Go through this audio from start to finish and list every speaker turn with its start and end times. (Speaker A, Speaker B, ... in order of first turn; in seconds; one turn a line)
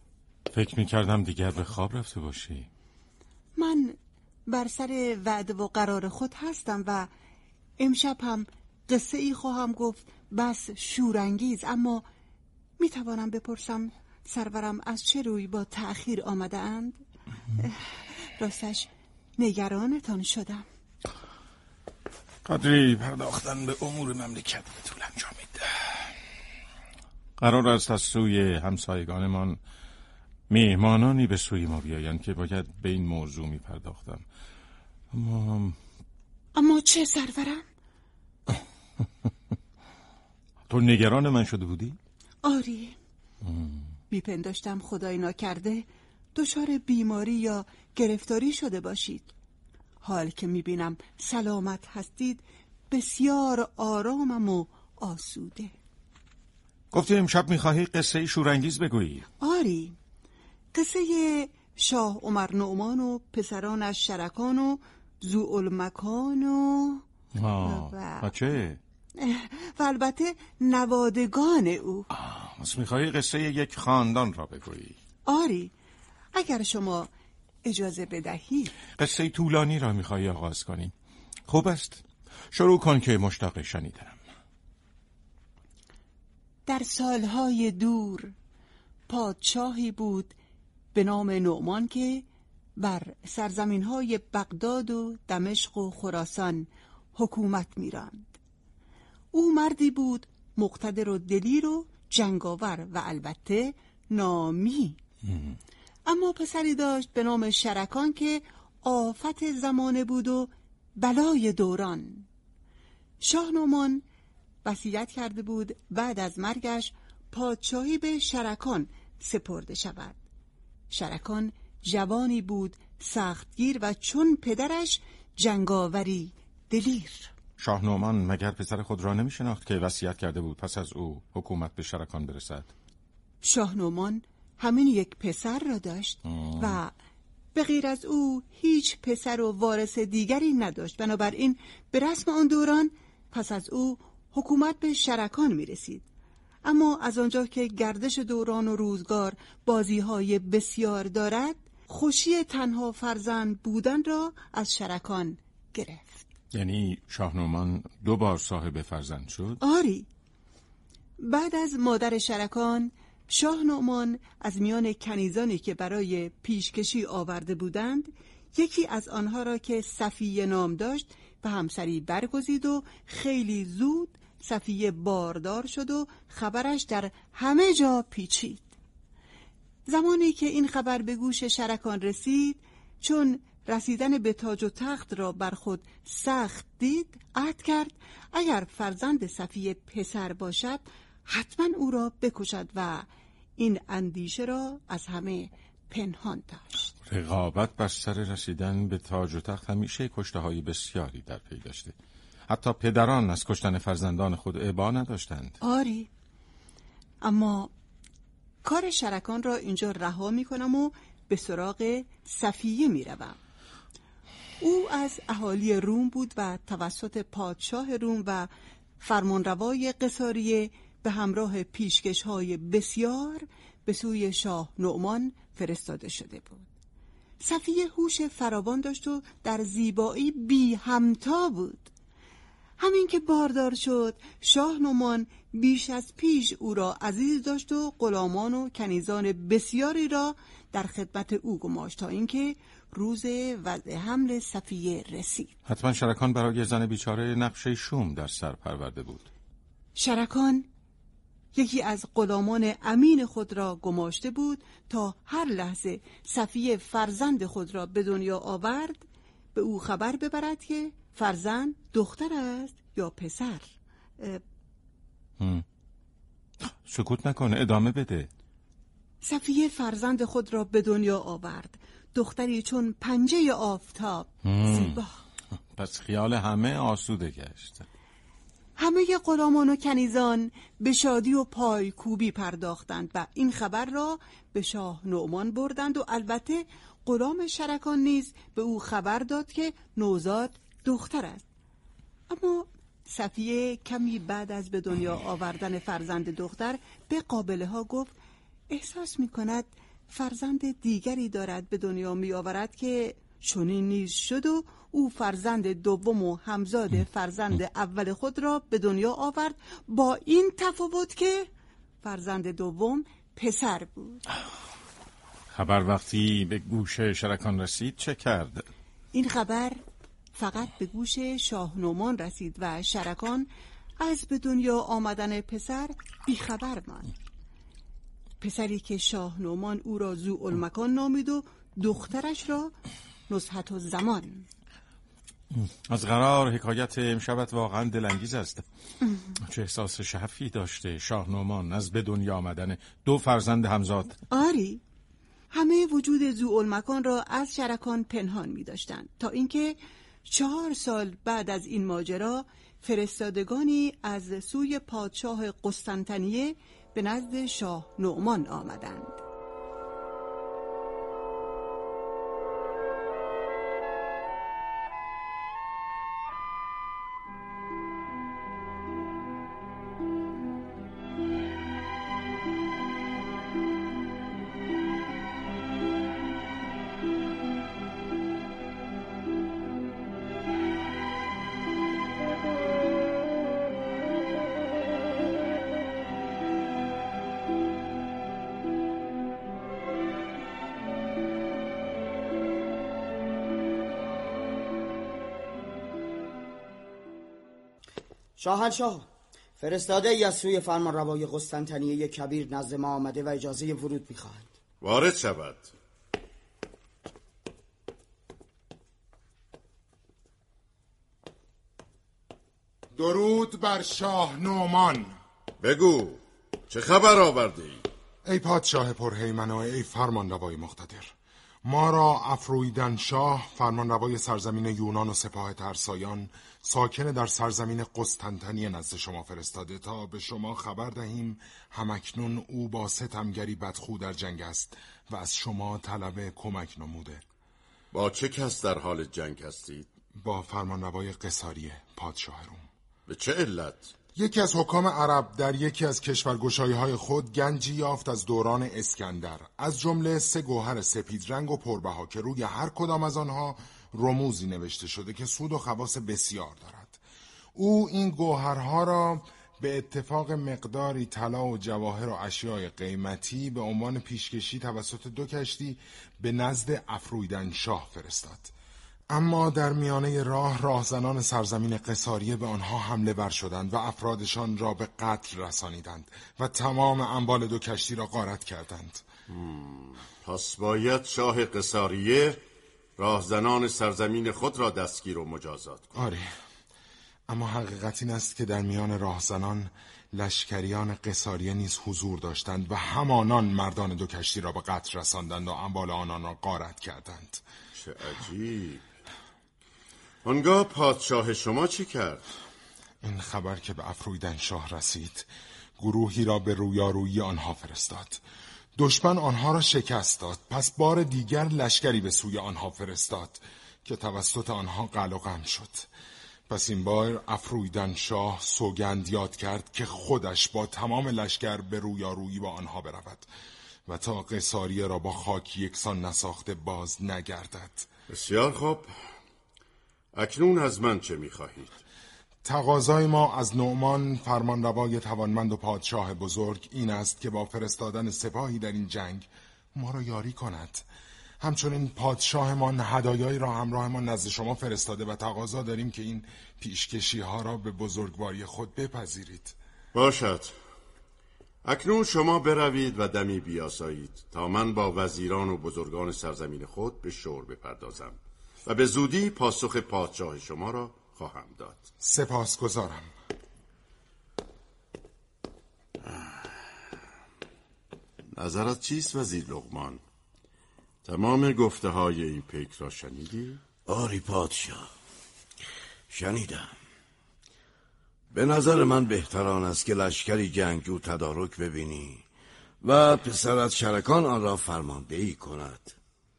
Speaker A: 0.5-2.7
Speaker B: 3.5-7.1
Speaker B: 7.8-12.0
Speaker B: 12.8-17.0
Speaker B: 17.6-20.6
Speaker A: 22.4-25.9
Speaker A: 27.4-29.6
Speaker A: 30.5-34.2
Speaker A: 35.1-35.8
Speaker B: 36.5-37.6
Speaker A: 40.7-42.0
Speaker B: 42.4-42.9
Speaker A: 43.5-43.8
Speaker B: 44.1-49.3
Speaker B: 50.0-55.7
Speaker A: 56.9-59.3
Speaker B: 59.4-60.0
Speaker B: 60.7-67.0
Speaker A: 67.4-68.8
Speaker B: 67.6-68.3
Speaker B: 69.2-72.1
Speaker A: 72.1-75.0
Speaker B: 75.2-75.7
Speaker B: 76.3-77.1
Speaker B: 77.6-78.7
Speaker A: 79.0-80.9
Speaker A: 81.5-84.2
Speaker B: 86.7-88.3
Speaker B: 89.1-90.3
Speaker B: 90.9-92.2
Speaker B: 92.8-98.3
Speaker B: 99.3-105.0
Speaker B: 106.0-112.3
Speaker B: 113.2-114.0
Speaker B: 114.6-120.2
Speaker B: 120.9-127.3
Speaker A: 127.6-132.7
Speaker B: 133.4-136.9
Speaker A: 136.3-136.8
Speaker B: 137.5-146.1
Speaker B: 146.6-156.2
Speaker A: 156.5-159.6
Speaker B: 159.6-160.1
Speaker B: 161.2-178.7
Speaker B: 179.9-196.9
Speaker A: 197.1-201.9
Speaker A: 202.5-205.5
Speaker B: 205.6-206.1
Speaker B: 207.2-207.7
Speaker B: 208.6-213.4
Speaker B: 214.6-226.7
Speaker B: 227.4-231.9
Speaker B: 232.8-245.5
Speaker A: 245.7-249.2
Speaker B: 249.9-250.7
Speaker B: 251.5-264.4
Speaker A: 266.8-268.3
Speaker B: 269.2-275.2
Speaker A: 274.4-275.0
Speaker A: 275.7-277.9
Speaker B: 278.8-291.4
Speaker B: 292.3-298.1
Speaker B: 298.7-311.5
Speaker B: 312.0-314.2
Speaker A: 315.5-318.7
Speaker B: 319.1-319.8
Speaker B: 320.3-327.1
Speaker B: 328.4-332.7
Speaker B: 333.3-334.4
Speaker A: 335.5-338.6
Speaker A: 339.4-344.2
Speaker B: 344.3-344.8
Speaker B: 345.5-359.2
Speaker C: 398.4-399.1
Speaker C: 399.6-404.5
Speaker D: 404.8-405.7
Speaker E: 412.9-415.2
Speaker D: 415.6-417.8
Speaker E: 418.2-421.1
Speaker E: 421.6-437.2
Speaker D: 437.9-439.9
Speaker E: 440.2-442.6
Speaker D: 443.1-443.9
Speaker E: 444.1-457.0
Speaker E: 457.6-468.5
Speaker E: 469.1-479.0
Speaker D: 479.3-482.4
Speaker D: 483.0-485.9
Speaker E: 485.9-486.3
Speaker E: 487.3-497.4
Speaker D: 497.7-498.8
Speaker D: 500.2-502.2
Speaker E: 503.0-508.2
Speaker E: 508.8-515.9
Speaker E: 516.5-523.3
Speaker E: 523.9-527.9
Speaker D: 528.1-528.9
Speaker D: 530.1-531.8
Speaker E: 532.4-540.8
Speaker E: 541.4-549.5
Speaker D: 549.9-550.5
Speaker D: 551.6-561.8
Speaker E: 562.0-563.1
Speaker D: 568.4-570.0
Speaker D: 571.0-573.6
Speaker F: 573.9-574.9
Speaker F: 576.1-576.7
Speaker F: 578.3-582.2
Speaker F: 582.8-586.0